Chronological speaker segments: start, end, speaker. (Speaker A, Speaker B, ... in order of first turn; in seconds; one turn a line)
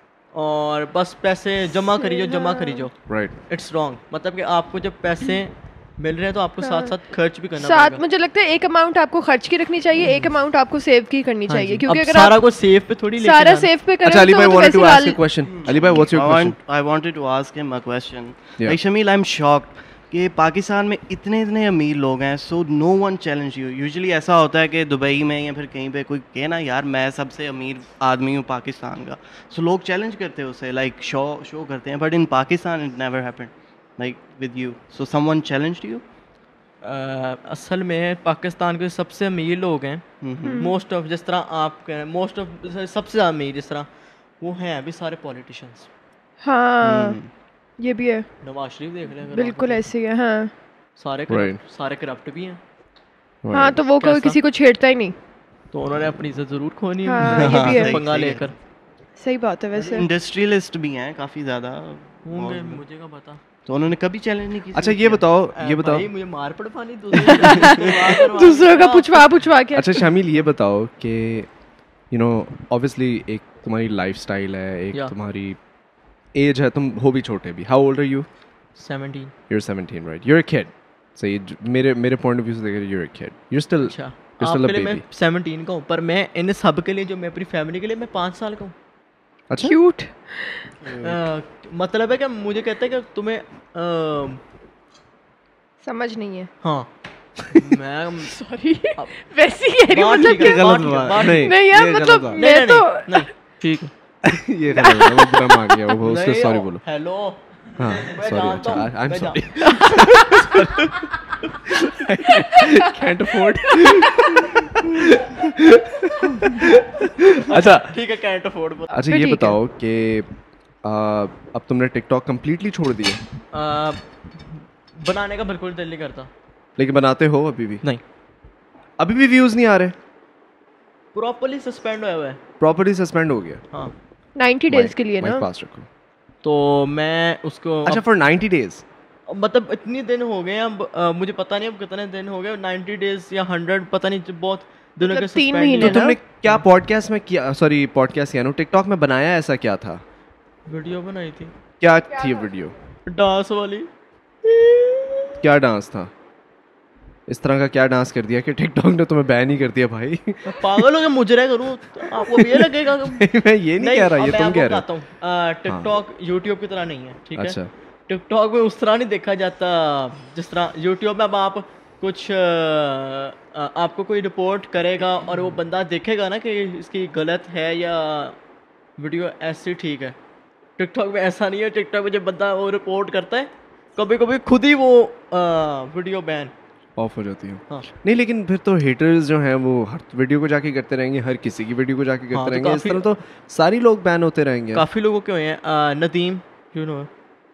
Speaker A: 0.3-3.0
Speaker B: 2.0-2.9
Speaker C: 3.1-3.3
Speaker A: 3.5-8.0
Speaker B: 6.6-7.0
Speaker B: 7.6-12.4
Speaker A: 11.5-13.7
Speaker B: 13.2-15.2
Speaker C: 14.0-16.6
Speaker D: 15.5-36.0
Speaker A: 36.8-40.0
Speaker D: 40.2-40.6
Speaker B: 40.4-40.7
Speaker A: 40.6-43.9
Speaker A: 44.4-45.9
Speaker B: 46.4-47.2
Speaker D: 46.8-47.3
Speaker B: 47.8-48.3
Speaker A: 48.4-49.8
Speaker B: 49.3-50.5
Speaker A: 51.0-52.6
Speaker C: 51.3-51.6
Speaker C: 53.4-53.8
Speaker B: 53.5-55.1
Speaker A: 54.0-54.4
Speaker A: 55.7-58.5
Speaker B: 57.1-58.0
Speaker D: 57.2-58.5
Speaker B: 59.2-60.1
Speaker D: 59.8-62.8
Speaker A: 62.2-63.4
Speaker D: 63.6-65.2
Speaker C: 64.7-66.1
Speaker A: 65.5-69.3
Speaker B: 67.2-70.1
Speaker D: 67.4-68.2
Speaker C: 69.7-71.5
Speaker C: 72.1-75.6
Speaker C: 76.3-78.3
Speaker A: 78.8-79.3
Speaker C: 79.5-85.0
Speaker A: 83.8-88.7
Speaker C: 89.5-89.8
Speaker B: 89.6-90.7
Speaker C: 90.9-91.1
Speaker A: 91.0-94.4
Speaker B: 95.8-96.5
Speaker A: 96.6-96.9
Speaker A: 97.5-98.3
Speaker B: 98.3-100.7
Speaker A: 99.9-101.6
Speaker C: 100.2-102.4
Speaker B: 101.2-103.3
Speaker A: 102.3-103.9
Speaker C: 104.2-106.8
Speaker B: 104.8-105.8
Speaker A: 106.0-109.9
Speaker C: 107.8-117.9
Speaker B: 109.9-110.5
Speaker B: 112.5-112.9
Speaker B: 113.7-114.4
Speaker A: 117.5-118.9
Speaker C: 118.9-120.3
Speaker B: 119.1-119.6
Speaker C: 120.8-123.2
Speaker A: 123.5-126.3
Speaker C: 126.8-127.8
Speaker C: 129.0-129.9
Speaker A: 131.1-132.4
Speaker C: 132.6-133.6
Speaker B: 134.4-135.4
Speaker C: 134.7-135.9
Speaker A: 136.4-138.0
Speaker C: 137.9-138.8
Speaker A: 139.3-146.6
Speaker B: 145.0-146.2
Speaker C: 145.8-150.0
Speaker A: 150.7-151.5
Speaker C: 151.8-152.7
Speaker A: 153.1-153.9
Speaker A: 154.4-155.4
Speaker C: 155.4-156.1
Speaker C: 157.3-160.7
Speaker A: 160.5-163.2
Speaker C: 162.2-164.8
Speaker A: 163.8-167.6
Speaker C: 167.4-167.7
Speaker A: 168.1-178.3
Speaker A: 179.0-180.2
Speaker A: 180.8-186.5
Speaker C: 187.0-194.8
Speaker A: 192.3-193.1
Speaker A: 194.7-197.1